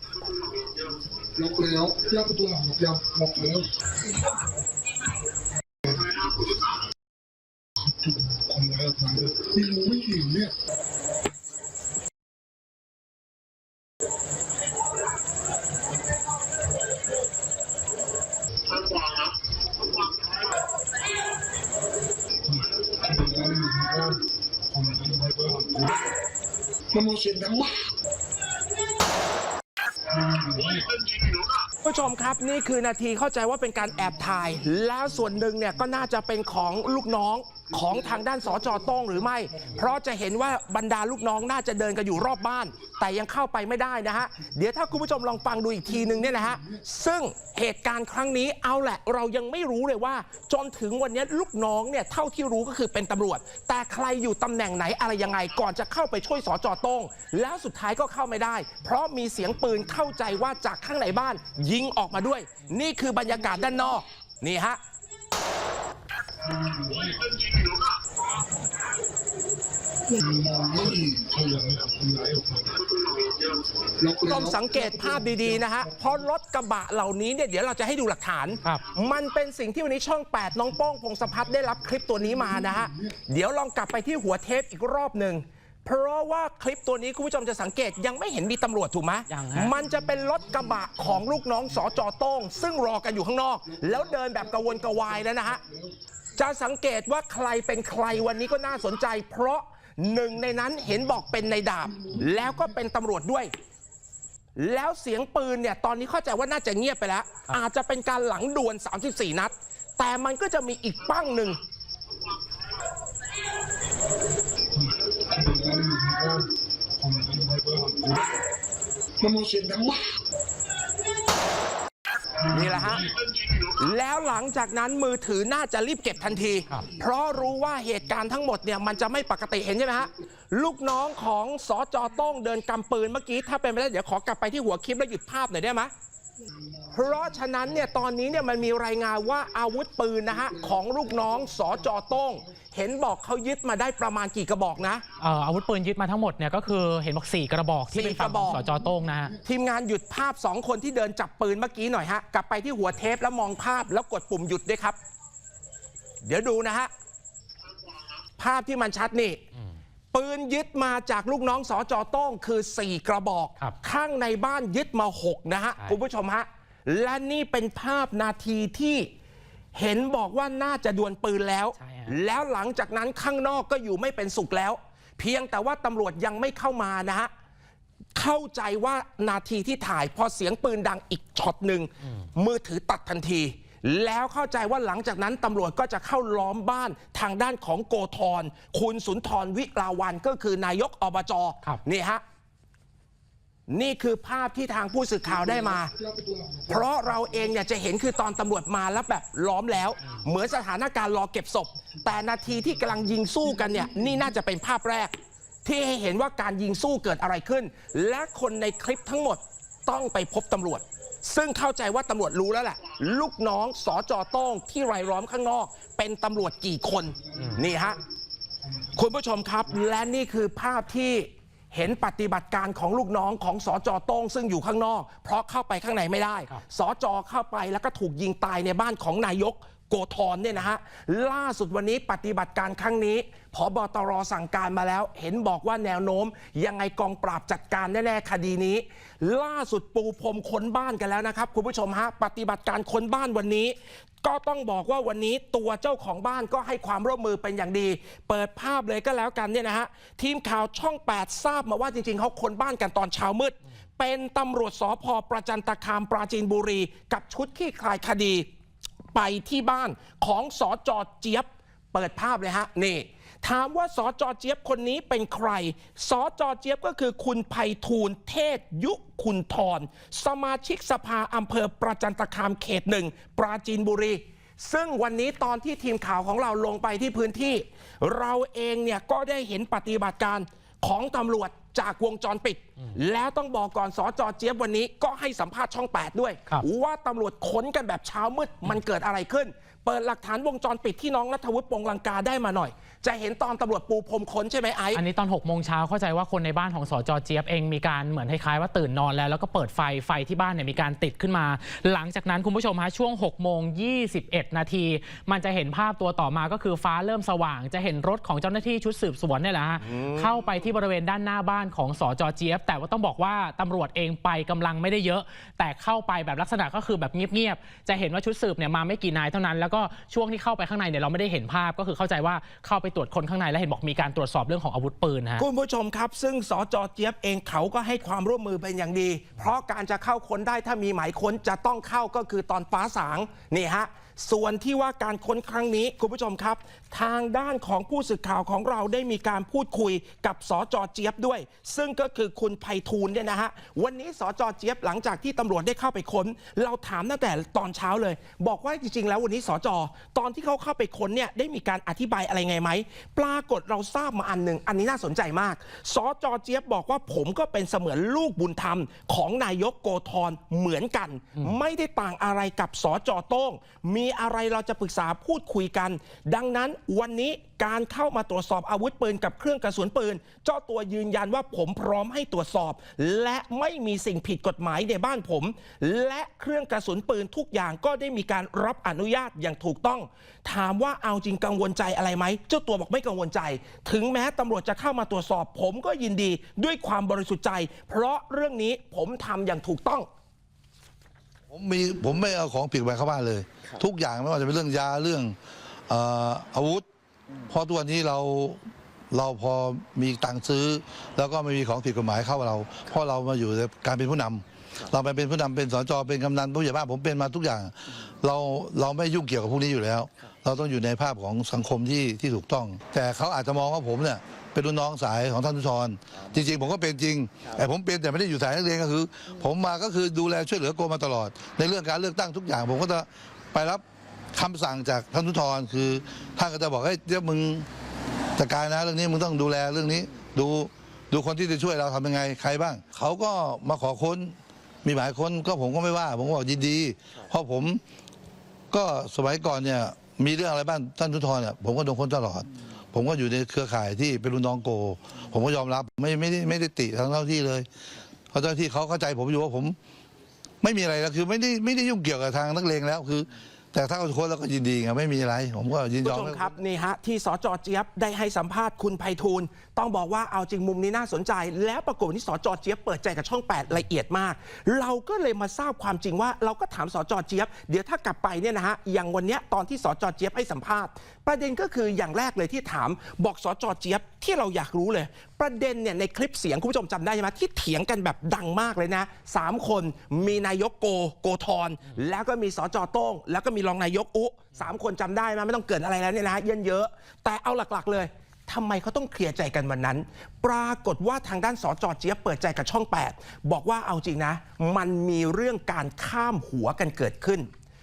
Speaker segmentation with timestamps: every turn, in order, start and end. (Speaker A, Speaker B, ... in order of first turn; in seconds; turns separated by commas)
Speaker A: 1.3-3.8, Speaker A: 7.8-10.6, Speaker A: 22.5-26.1, Speaker A: 26.9-27.9, Speaker A: 30.1-31.0, Speaker B: 31.8-64.8, Speaker A: 66.5-67.3, Speaker A: 70.1-72.9, Speaker A: 74.0-75.2, Speaker B: 74.3-95.6, Speaker C: 89.3-89.7, Speaker B: 96.3-103.5, Speaker B: 104.5-111.6, Speaker A: 114.8-118.4, Speaker A: 119.2-120.2, Speaker B: 122.4-135.9, Speaker B: 136.9-145.0, Speaker C: 145.2-149.4, Speaker B: 147.9-148.6, Speaker B: 149.4-155.0, Speaker B: 156.2-156.9, Speaker B: 158.4-159.4, Speaker B: 160.1-169.1, Speaker B: 169.7-177.3, Speaker C: 171.8-172.2, Speaker B: 178.2-192.2, Speaker B: 193.7-195.9, Speaker A: 196.0-196.7, Speaker B: 196.7-205.1, Speaker B: 205.6-218.0, Speaker B: 218.9-258.4, Speaker B: 259.1-295.0, Speaker C: 294.9-325.4, Speaker B: 325.4-390.1, Speaker D: 391.5-395.4, Speaker D: 395.9-396.8, Speaker D: 397.5-427.7, Speaker D: 428.4-437.8, Speaker D: 438.7-447.7, Speaker D: 448.3-449.8, Speaker D: 450.6-456.5, Speaker B: 456.0-497.5